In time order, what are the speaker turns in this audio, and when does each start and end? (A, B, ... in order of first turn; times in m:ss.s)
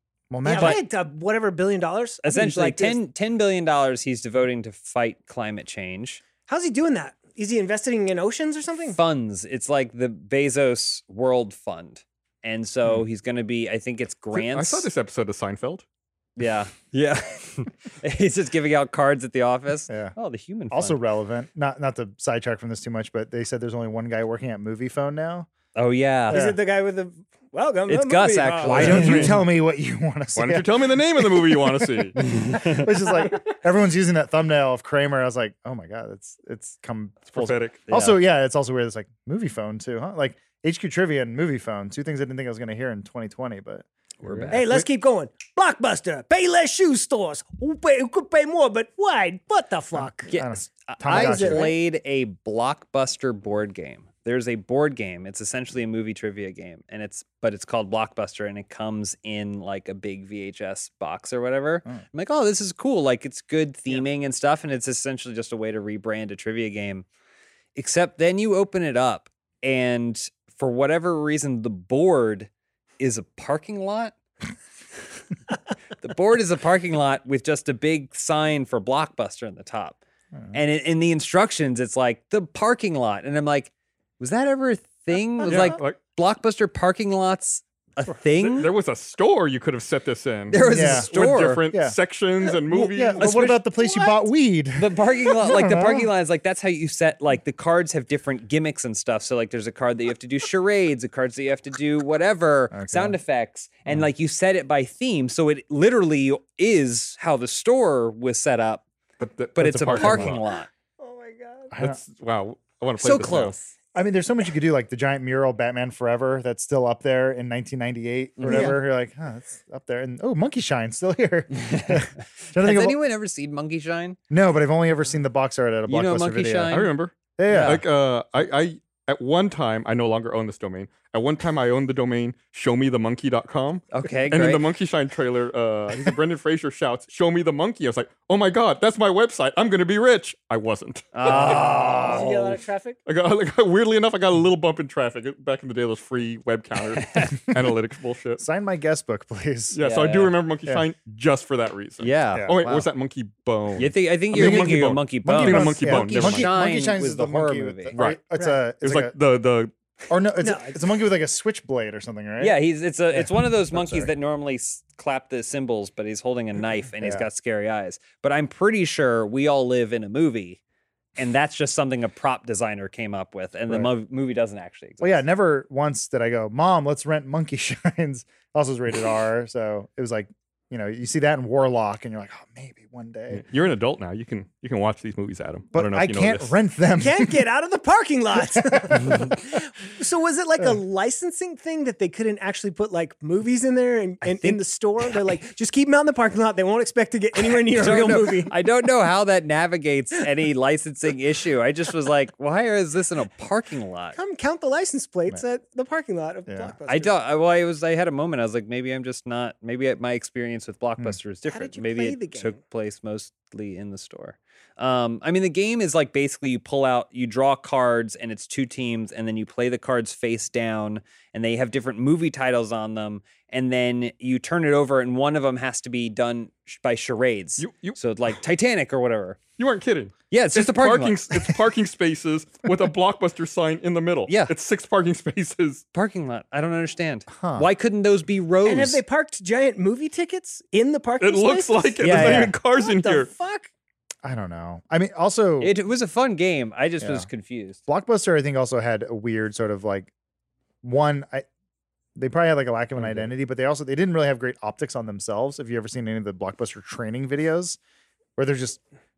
0:00.3-0:00.8 A
0:00.4-0:03.0 B
0:00.5-0:00.8 C
0:02.2-0:06.2 C
0:06.5-0:09.0 B
0:08.9-0:14.9 C
0:14.3-0:15.8 D
0:16.4-0:21.0 C
0:19.9-0:20.1 A
0:20.7-0:25.5 A
0:25.8-0:26.5 C
0:26.3-0:29.3 B
0:26.3-0:26.6 A
0:27.9-0:29.4 C
0:28.7-0:29.4 D
0:28.7-0:44.9 A
0:30.4-0:32.2 D
0:32.2-0:32.9 C
0:37.3-0:37.8 D
0:37.9-0:38.2 C
0:44.2-0:44.7 C
0:44.5-0:50.3 B
0:50.0-0:51.7 A
0:50.3-1:07.1 C
0:51.1-0:51.8 B
1:07.8-1:12.5 C
1:13.0-1:14.2 C
1:16.0-1:20.0 C
1:20.5-1:28.7 C
1:25.5-1:26.0 D
1:28.4-1:33.4 D
1:30.5-1:31.7 C
1:30.7-1:32.0 A
1:32.7-1:36.1 A
1:33.2-1:33.6 C
1:33.8-1:34.3 B
1:34.8-1:48.8 C
1:42.7-1:43.2 A
1:49.2-1:50.4 D
1:49.6-1:50.7 C
1:49.8-1:50.4 A
1:51.0-1:51.7 B
1:51.7-1:52.0 A
1:51.8-1:53.6 D
1:53.0-1:53.7 C
1:54.0-2:03.0 A
1:58.4-1:58.8 C
1:58.5-1:58.8 B
2:01.6-2:04.2 C
2:04.3-2:06.8 A
2:05.9-2:06.9 C
2:06.7-2:21.6 D
2:07.4-2:07.8 A
2:07.5-2:07.8 C
2:13.9-2:14.6 C
2:21.1-2:22.6 C
2:21.4-2:23.0 B
2:21.4-2:21.8 A
2:23.1-2:28.4 D
2:27.0-2:27.3 C
2:28.4-2:29.8 A
2:29.7-2:36.5 D
2:29.8-2:30.4 C
2:32.0-2:32.9 C
2:33.8-2:38.0 C
2:34.3-2:39.1 A
2:37.9-2:38.2 D
2:38.4-2:38.6 B
2:38.8-2:39.7 D
2:40.1-2:42.6 A
2:40.4-2:40.8 B
2:42.4-2:50.6 C
2:43.1-2:44.1 A
2:47.0-2:47.3 A
2:51.2-2:55.2 C
2:55.0-3:03.4 A
3:03.3-3:06.5 D
3:05.7-3:07.5 A
3:07.0-3:18.5 B
3:08.4-3:09.3 A
3:14.2-3:15.2 C
3:17.7-3:24.2 C
3:17.8-3:18.5 A
3:24.2-3:27.2 B
3:26.5-3:26.8 A
3:26.9-3:49.4 C
3:31.5-3:32.6 B
3:47.6-3:48.0 D
3:49.6-3:55.8 D
3:50.3-3:51.5 C
3:55.9-3:59.0 C
3:57.3-3:57.7 A
3:58.6-4:03.7 B
4:01.2-4:03.3 D
4:02.0-4:02.6 C
4:04.2-4:05.7 A
4:05.6-4:07.8 C
4:07.0-4:07.3 A
4:07.9-4:10.1 A
4:10.8-4:11.5 A
4:12.2-4:17.8 A
4:13.0-4:13.3 C
4:18.4-4:18.8 A